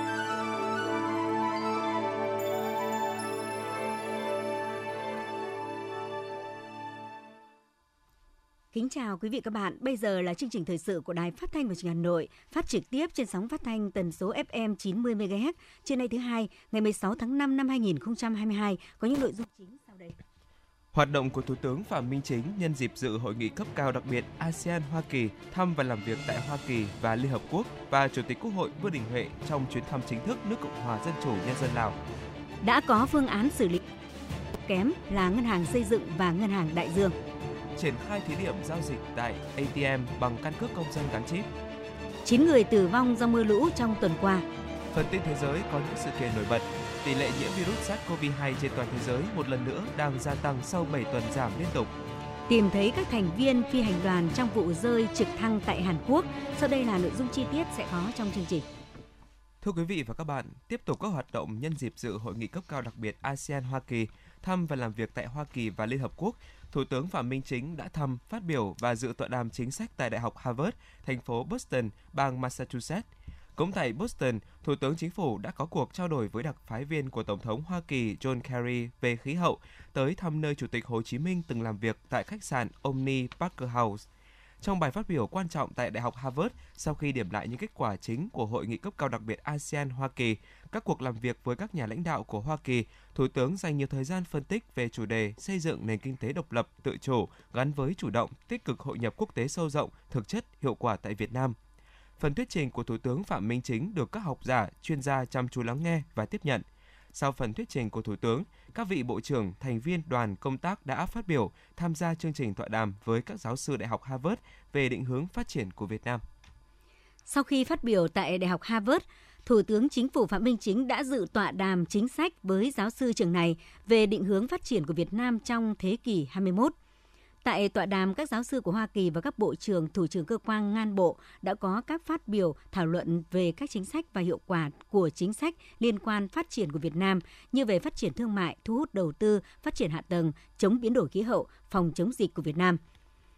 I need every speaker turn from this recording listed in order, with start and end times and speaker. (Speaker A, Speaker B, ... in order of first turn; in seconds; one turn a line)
Speaker A: 8.7-20.2
Speaker B: 20.9-32.0
Speaker A: 32.6-33.8
Speaker A: 34.6-37.1
Speaker B: 37.8-41.5
Speaker A: 42.2-44.5
Speaker B: 44.9-51.9
Speaker A: 52.5-58.7
Speaker B: 59.6-84.1
Speaker B: 84.6-101.6
Speaker B: 102.2-116.2
Speaker A: 117.3-126.7
Speaker A: 127.4-142.8